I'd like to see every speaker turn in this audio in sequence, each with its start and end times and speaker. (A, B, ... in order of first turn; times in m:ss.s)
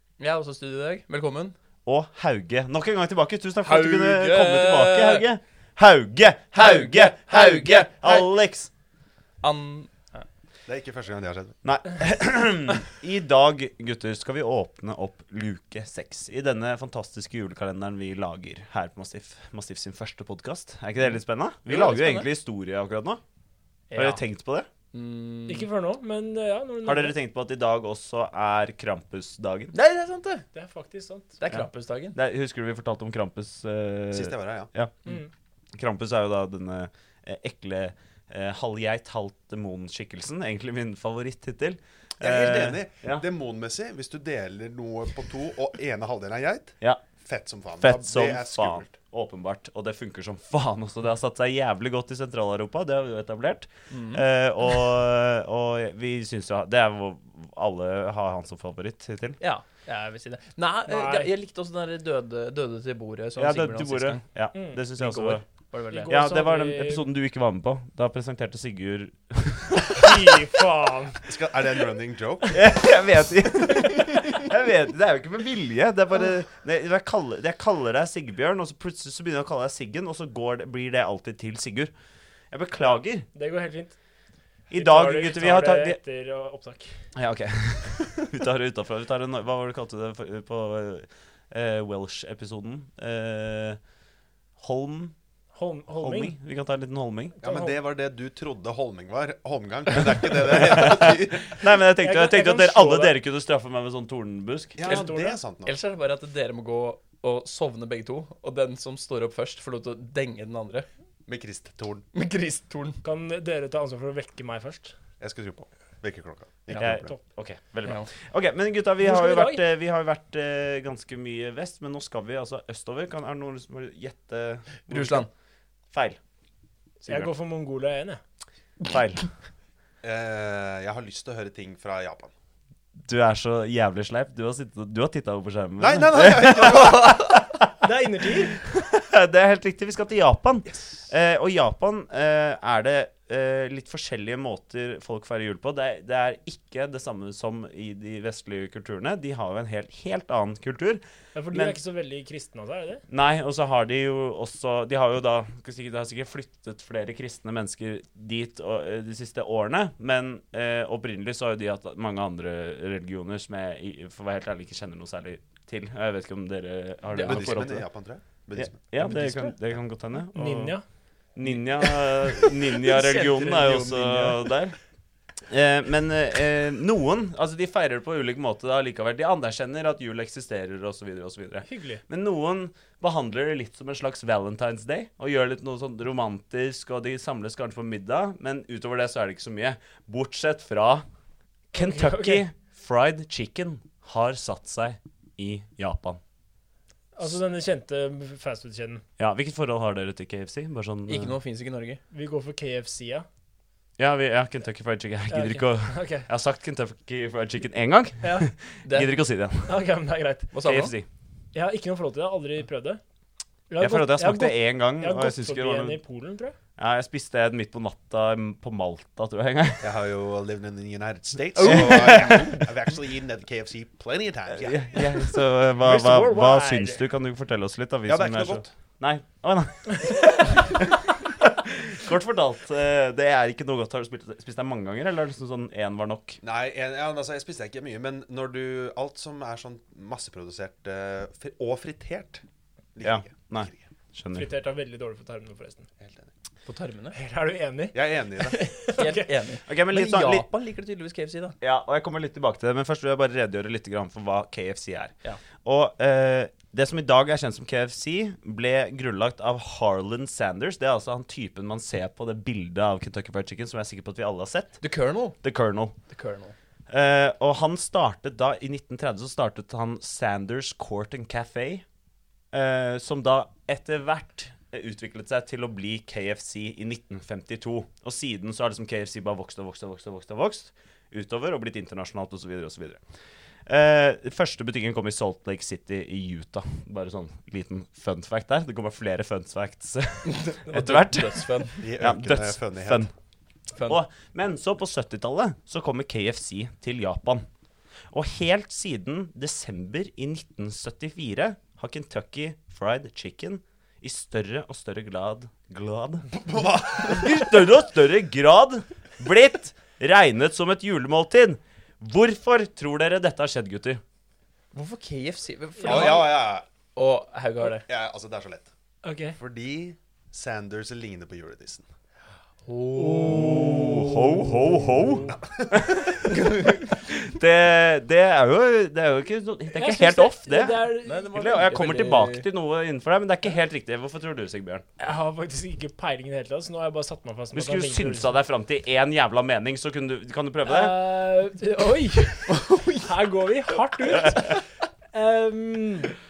0:00.2-0:01.5 A
0:01.8-0:08.7 B
0:03.6-0:05.3 A
0:06.5-0:08.3 A
0:09.4-0:10.2 A
0:10.7-0:11.6 C
0:11.6-0:23.2 B
0:21.7-0:22.3 A
0:23.9-0:24.2 D
0:24.0-0:24.7 B
0:24.9-0:25.6 A
0:25.5-0:27.2 D
0:26.8-0:29.7 B
0:29.7-0:30.4 A
0:30.5-0:31.4 D
0:31.4-0:32.2 A
0:31.5-0:34.9 B
0:34.1-0:34.7 C
0:35.0-0:35.3 D
0:35.8-0:43.2 B
0:42.2-0:48.9 C
0:47.8-0:59.4 B
0:53.9-0:54.2 A
0:59.4-1:04.2 A
1:00.8-1:01.3 D
1:03.4-1:05.4 B
1:04.5-1:04.9 D
1:05.0-1:06.1 A
1:05.9-1:07.1 D
1:06.1-1:10.1 B
1:09.9-1:11.2 D
1:11.2-1:12.6 C
1:12.5-1:21.9 B
1:22.5-1:23.3 B
1:22.8-1:24.0 D
1:24.7-1:26.0 B
1:24.7-1:27.0 D
1:27.2-1:33.8 B
1:34.6-1:35.1 B
1:35.5-1:36.4 D
1:36.0-1:37.4 B
1:37.3-1:37.8 D
1:37.4-1:41.7 C
1:40.3-1:44.9 B
1:42.0-1:43.2 D
1:44.8-1:45.7 C
1:44.8-1:50.8 A
1:44.9-1:45.4 D
1:51.3-1:52.0 C
1:52.1-1:53.0 A
1:53.0-1:54.9 D
1:55.2-1:57.1 C
1:56.8-2:05.3 B
1:59.0-1:59.6 D
2:04.9-2:05.3 A
2:05.9-2:06.2 B
2:07.0-2:07.3 B
2:07.0-2:08.2 D
2:08.8-2:09.3 B
2:10.0-2:12.3 C
2:13.0-2:17.7 B
2:15.8-2:17.2 C
2:17.8-2:18.6 D
2:18.6-2:31.0 B
2:31.3-2:33.0 D
2:33.1-2:47.8 B
2:47.1-2:47.7 A
2:47.2-2:48.8 C
2:48.6-2:50.7 B
2:49.0-2:49.5 A
2:50.3-2:50.8 D
2:51.3-2:54.8 B
2:51.5-2:54.5 A
2:55.5-3:11.0 B
3:01.6-3:02.0 D
3:11.7-3:16.2 B
3:11.7-3:12.4 D
3:17.2-3:19.0 D
3:19.2-3:21.4 B
3:21.1-3:22.0 A
3:22.1-3:23.2 D
3:24.0-3:29.8 B
3:25.3-3:26.3 D
3:28.2-3:28.5 D
3:28.8-3:29.2 A
3:29.7-3:30.6 D
3:30.5-3:30.9 A
3:30.6-3:31.1 B
3:31.5-3:33.0 D
3:33.7-3:36.6 D
3:33.8-3:36.0 B
3:36.8-3:39.9 B
3:39.8-3:45.0 C
3:41.6-3:42.6 B
3:44.6-3:56.4 B
3:45.8-3:47.1 D
3:48.1-3:48.7 C
3:56.4-4:02.4 C
4:02.9-4:03.8 C
4:03.0-4:04.5 B
4:04.3-4:05.9 D
4:06.0-4:06.3 C
4:06.6-4:07.2 A
4:07.1-4:09.3 D
4:07.9-4:08.6 C
4:08.4-4:11.5 A
4:09.7-4:10.5 B
4:11.6-4:24.8 B
4:24.8-4:25.4 A
4:25.4-4:26.0 B
4:26.1-4:26.5 A
4:26.9-4:31.8 B
4:32.5-4:43.0 B
4:43.7-4:53.1 B
4:50.2-4:51.9 A
4:51.8-4:53.1 C
4:53.7-4:54.0 A
4:53.8-4:57.4 B
4:58.1-5:06.3 B
5:06.4-5:07.2 C
5:07.0-5:14.0 B
5:14.7-5:17.8 A
5:15.8-5:16.2 D
5:15.9-5:16.6 C
5:17.8-5:18.7 C
5:19.0-5:19.4 D
5:19.4-5:21.8 C
5:22.6-5:24.4 A
5:22.9-5:23.9 D
5:23.5-5:34.8 B
5:24.9-5:25.3 D
5:25.3-5:25.9 C
5:26.4-5:26.7 A
5:29.7-5:31.4 D
5:31.0-5:32.4 A
5:35.0-5:38.4 D
5:37.5-5:41.0 B
5:40.6-5:46.1 D
5:42.5-5:43.0 A